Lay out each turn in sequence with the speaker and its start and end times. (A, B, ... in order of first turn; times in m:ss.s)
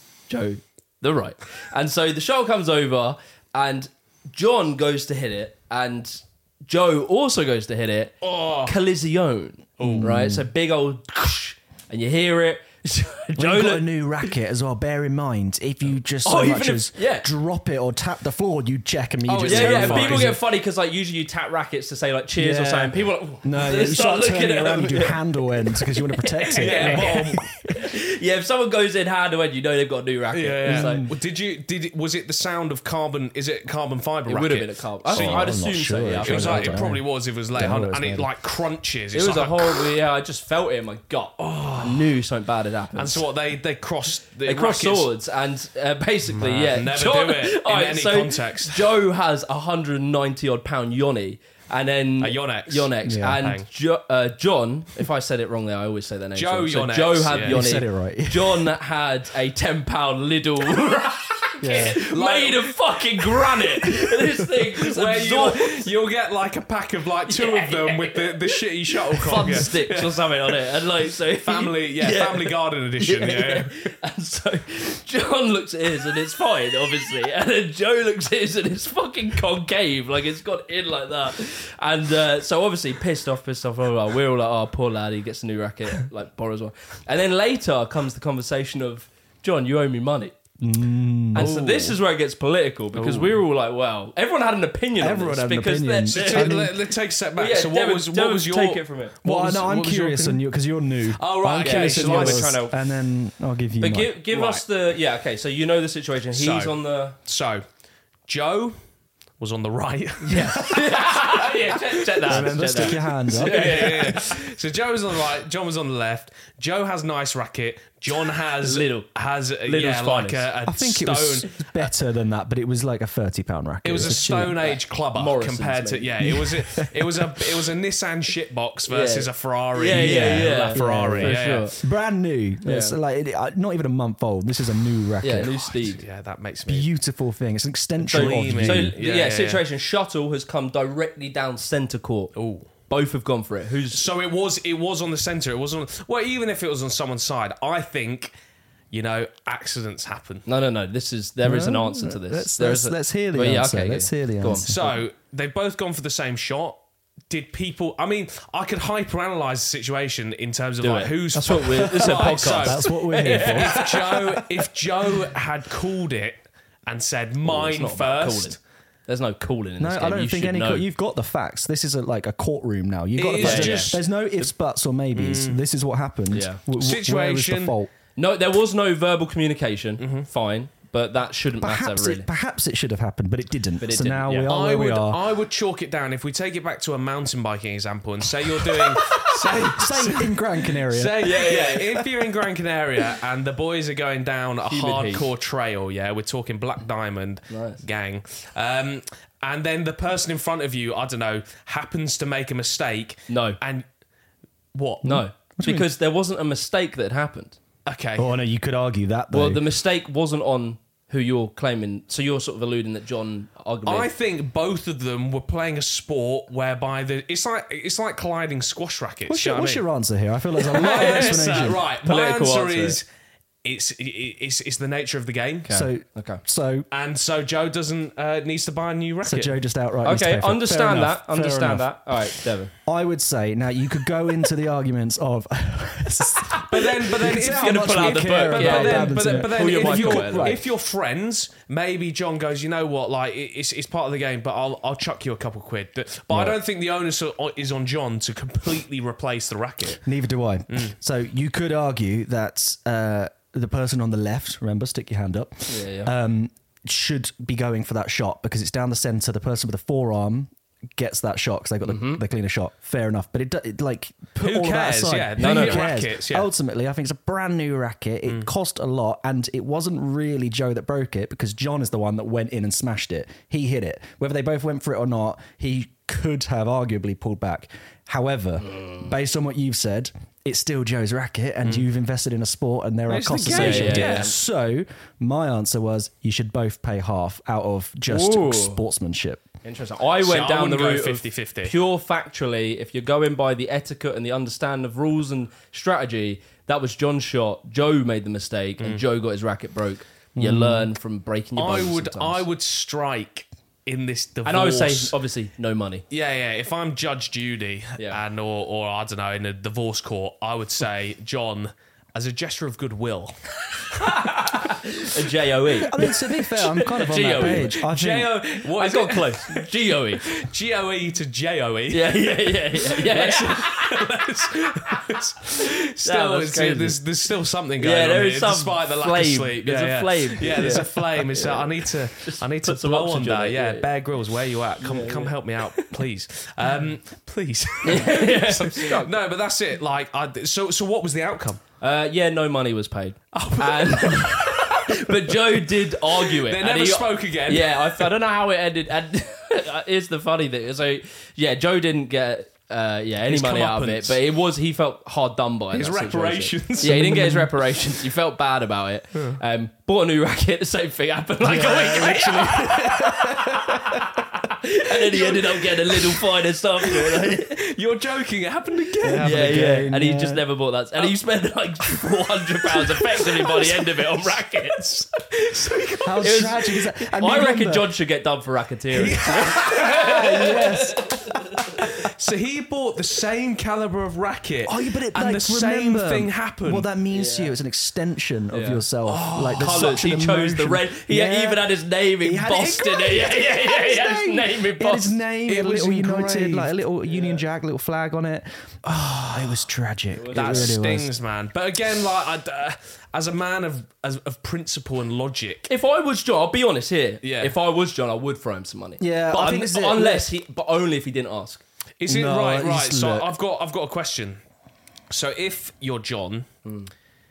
0:00.3-0:14.3 A
0:08.2-0:08.7 B
0:09.8-0:10.2 B
0:09.8-0:10.5 C
0:13.4-0:20.4 C
0:16.2-0:17.3 A
0:19.3-0:20.4 B
0:19.4-0:31.0 A
0:22.4-0:27.8 C
0:26.6-0:27.5 B
0:30.3-0:35.6 B
0:30.6-0:31.1 C
0:34.3-0:36.8 A
0:35.1-0:38.3 C
0:36.2-0:39.9 B
0:39.1-0:43.2 A
0:41.4-0:42.1 B
0:43.0-0:45.1 B
0:44.4-1:05.9 A
0:46.3-0:48.9 B
0:52.2-0:53.7 B
0:53.0-0:53.4 C
0:56.4-0:57.7 B
0:57.4-0:58.7 C
1:01.6-1:02.0 C
1:01.7-1:02.7 B
1:04.8-1:10.6 B
1:07.3-1:30.4 A
1:11.4-1:13.9 B
1:30.6-1:31.5 C
1:31.3-1:36.7 A
1:31.4-1:32.0 B
1:32.9-1:33.4 B
1:35.0-1:36.8 C
1:36.1-1:40.4 B
1:37.4-1:39.2 A
1:39.2-1:44.2 C
1:41.1-1:42.6 B
1:41.6-1:42.8 A
1:43.8-1:47.2 A
1:44.3-1:44.6 B
1:46.3-1:47.6 B
1:48.3-1:48.8 B
1:49.4-2:01.9 B
1:50.2-1:54.3 A
1:52.3-1:54.2 C
1:58.6-1:59.1 A
1:59.7-2:00.5 A
2:00.7-2:04.6 C
2:03.8-2:11.7 B
2:04.5-2:06.4 A
2:06.2-2:07.6 C
2:08.9-2:11.8 A
2:09.9-2:15.8 C
2:12.6-2:13.0 A
2:15.2-2:16.0 A
2:15.9-2:16.9 B
2:16.7-2:18.9 C
2:18.0-2:19.6 B
2:18.0-2:22.3 A
2:22.4-2:22.7 B
2:22.9-2:24.0 A
2:23.9-2:28.3 B
2:28.9-2:30.5 B
2:30.5-2:34.7 A
2:31.4-2:35.0 C
2:34.7-2:36.8 B
2:37.3-2:48.6 B
2:40.8-2:44.4 A
2:41.6-2:44.2 C
2:47.4-2:50.9 A
2:49.8-2:57.9 C
2:53.2-2:54.0 B
2:53.4-2:54.0 A
2:55.2-2:55.6 B
2:56.3-2:56.6 A
2:56.8-2:57.8 B
2:58.2-3:02.3 A
3:00.0-3:00.3 B
3:01.6-3:05.2 C
3:03.8-3:04.5 A
3:04.5-3:23.8 B
3:08.7-3:11.8 C
3:11.2-3:12.0 A
3:14.7-3:15.3 A
3:17.5-3:17.8 A
3:23.3-3:23.6 A
3:24.7-3:25.2 B
3:25.0-3:25.9 C
3:25.0-3:27.6 A
3:27.9-3:28.3 B
3:28.2-3:29.6 C
3:29.3-3:34.1 A
3:33.9-3:39.8 B
3:39.3-3:41.8 C
3:40.6-3:43.0 B
3:40.9-3:43.0 A
3:43.6-3:45.7 B
3:45.6-3:46.4 A
3:45.7-3:46.9 C
3:46.9-3:49.6 B
3:49.2-3:51.9 C
3:50.0-3:52.7 A
3:52.8-4:00.6 C
3:56.4-4:00.6 A
3:56.7-4:10.0 B
4:10.0-4:49.4 C
4:15.7-4:16.1 A
4:21.8-4:22.2 A
4:24.4-4:26.5 B
4:25.4-4:25.8 A
4:43.1-4:44.4 B
4:43.4-4:44.4 A
4:48.1-4:48.8 A
4:49.6-5:02.4 A
4:50.2-4:51.8 B
5:00.4-5:00.9 C
5:01.6-5:05.2 B
5:04.4-5:06.0 A
5:06.1-5:14.8 B
5:14.0-5:17.8 A
5:15.8-5:18.3 C
5:17.2-5:41.6 B
5:18.7-5:20.2 A
5:21.9-5:24.1 A
5:25.5-5:27.0 A
5:27.8-5:33.9 A
5:34.8-5:35.9 A
5:37.8-5:39.1 A
5:41.8-6:07.6 A
5:43.3-5:48.1 B
5:53.2-5:54.2 B
5:55.7-5:57.1 B
5:56.8-5:57.5 C
5:59.1-5:59.4 B
6:01.4-6:04.2 B
6:02.0-6:04.0 C
6:05.1-6:06.2 B
6:06.8-6:09.6 B
6:09.0-6:10.4 C
6:09.2-6:14.9 A
6:11.9-6:16.6 B
6:16.0-6:17.9 C
6:16.2-6:21.9 A
6:18.9-6:20.7 B
6:19.6-6:21.2 C
6:21.8-6:26.9 B
6:24.7-6:31.7 C
6:27.1-6:27.5 A
6:28.5-6:28.8 A
6:29.1-6:29.9 B
6:29.5-6:35.2 A
6:32.2-6:41.1 C
6:35.5-6:36.7 B
6:37.1-6:37.4 A
6:40.1-6:40.8 A
6:40.3-6:45.7 B
6:45.7-6:51.6 A
6:47.2-6:47.5 B
6:49.0-6:50.3 C
6:52.0-6:54.4 B
6:52.1-6:53.3 C
6:55.1-6:56.5 B
6:56.6-6:56.9 A